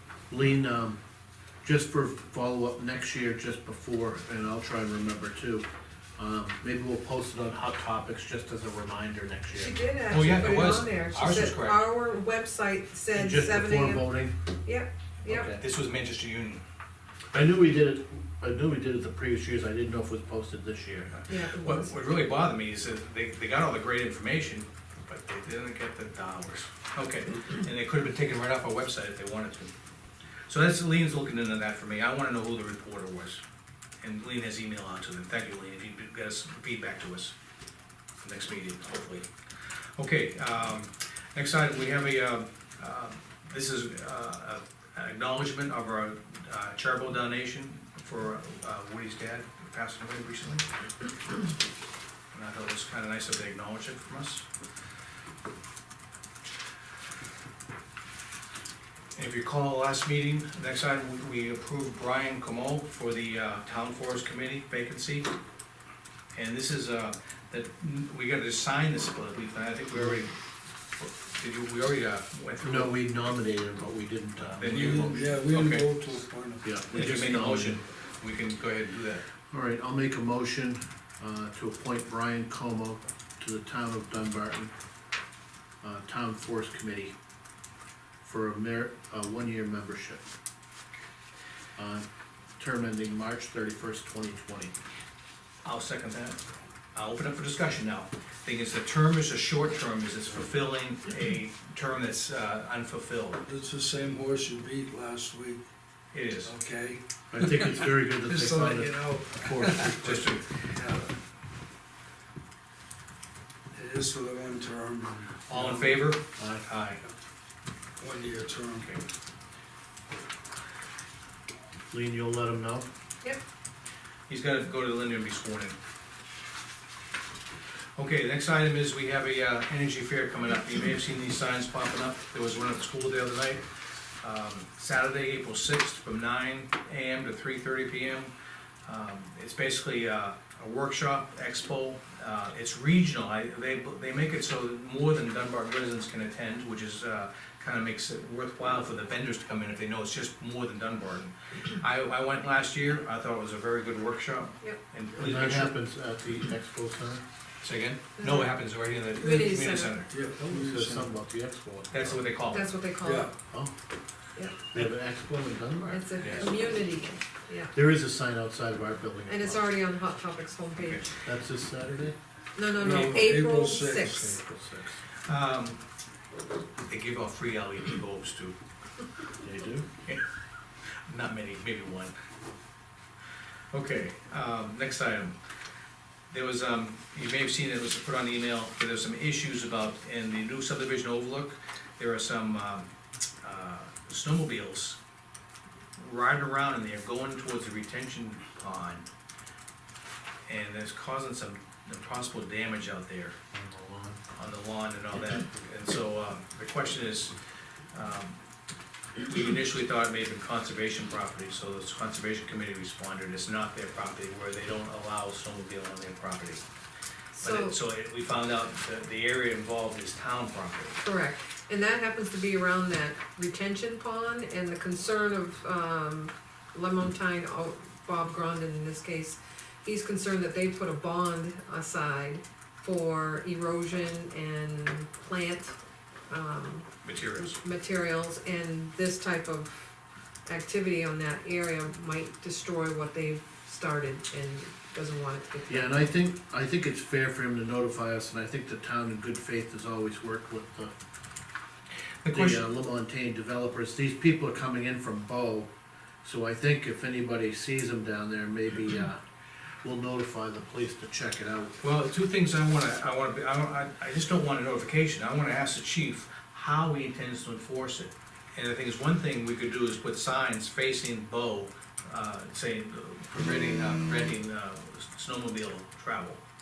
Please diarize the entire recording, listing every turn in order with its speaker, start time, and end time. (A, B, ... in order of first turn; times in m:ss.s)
0:00.3-0:01.0 A
0:01.6-0:05.6 A
0:06.2-0:10.8 A
0:09.5-0:15.5 B
0:10.1-0:11.8 C
0:13.1-0:14.3 A
0:15.2-0:15.6 A
0:15.5-0:16.6 C
0:17.3-0:21.1 A
0:21.1-0:29.7 C
0:21.3-0:22.0 B
0:30.5-0:33.4 C
0:34.0-0:37.3 C
0:38.2-0:39.3 C
0:40.0-0:50.6 C
0:52.3-0:54.4 C
0:59.2-1:05.3 C
1:06.3-1:10.3 C
1:11.0-1:13.3 C
1:12.6-1:15.3 A
1:14.4-1:15.9 C
1:14.6-1:16.8 D
1:16.6-1:17.8 A
1:16.9-1:19.2 C
1:19.5-1:24.7 A
1:25.8-1:27.1 A
1:28.2-1:30.2 A
1:31.8-1:32.0 A
1:32.6-1:34.7 A
1:35.6-1:36.4 C
1:36.9-1:43.4 C
1:43.4-1:45.6 D
1:46.1-1:46.5 C
1:46.4-1:50.0 D
1:47.3-1:50.4 A
1:50.0-1:50.5 C
1:50.7-1:51.1 D
1:53.7-1:56.0 D
1:55.5-1:57.0 C
1:56.4-1:56.6 A
1:58.0-1:58.9 D
2:01.9-2:02.9 A
2:04.3-2:05.8 C
2:08.0-2:13.6 C
2:14.2-2:18.3 C
2:18.8-2:35.8 C
2:35.2-2:37.2 A
2:37.6-2:40.1 C
2:38.2-2:38.5 B
2:39.2-2:40.0 B
2:40.1-2:41.1 D
2:40.4-2:42.2 A
2:41.9-2:42.7 C
2:42.5-2:43.3 B
2:43.0-2:43.3 D
2:44.3-2:44.6 B
2:44.7-2:46.5 A
2:45.8-2:47.7 B
2:46.2-2:46.5 C
2:47.7-2:49.7 A
2:49.3-2:51.1 B
2:50.8-2:51.0 C
2:51.2-2:52.2 A
2:52.6-2:54.4 B
2:52.8-2:54.3 D
2:54.1-2:55.0 A
2:55.2-2:55.8 C
2:56.9-2:58.6 C
2:59.4-2:59.8 A
3:01.1-3:02.1 C
3:03.7-3:05.3 C
3:06.3-3:12.9 C
3:13.4-3:15.0 C
3:16.0-3:19.0 C
3:20.5-3:23.4 C
3:23.5-3:24.2 A
3:24.3-3:27.3 C
3:27.9-3:28.4 C
3:29.2-3:36.6 C
3:37.4-3:37.7 B
3:37.4-3:41.0 C
3:41.0-3:55.7 B
3:56.3-3:56.9 B
3:57.0-3:57.6 C
3:57.5-3:59.9 B
4:00.4-4:06.0 B
4:05.7-4:10.9 A
4:12.2-4:12.6 C
4:12.3-4:15.7 A
4:16.2-4:19.2 A
4:19.8-4:21.8 A
4:21.8-4:36.4 C